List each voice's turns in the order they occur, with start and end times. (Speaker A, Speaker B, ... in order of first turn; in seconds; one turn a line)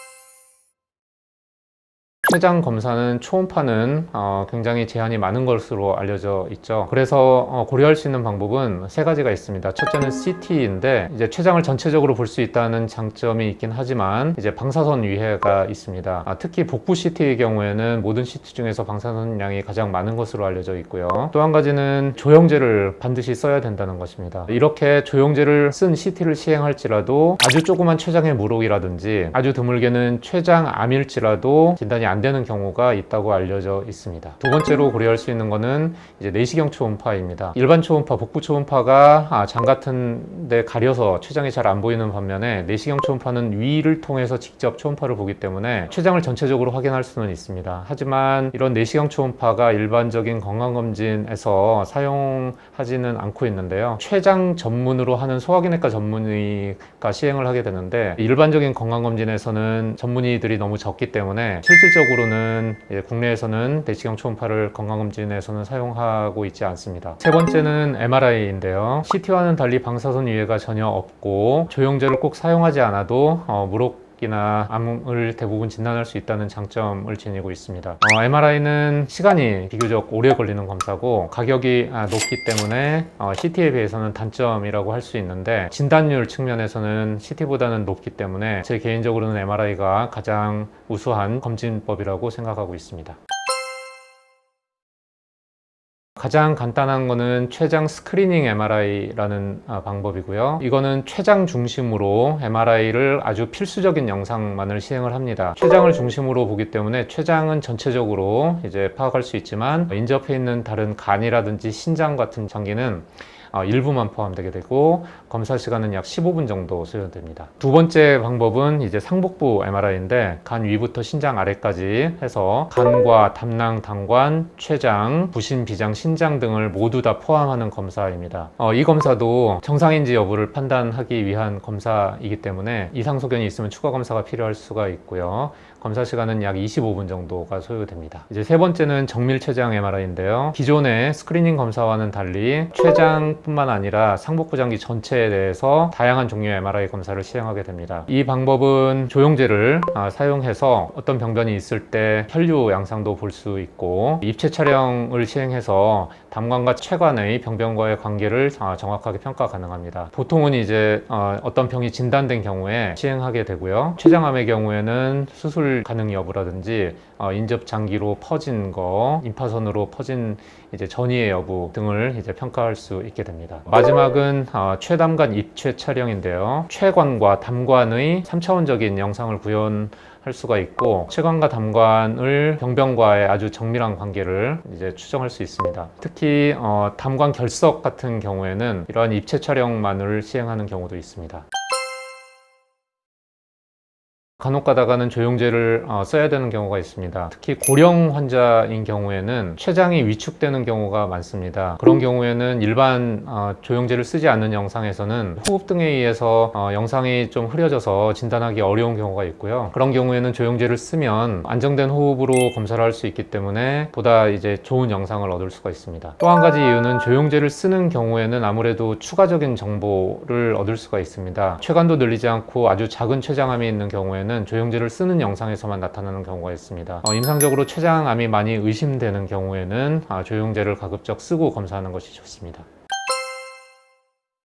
Speaker A: 2.2-93.2
Speaker A: 96.2-191.4
Speaker A: 194.4-232.6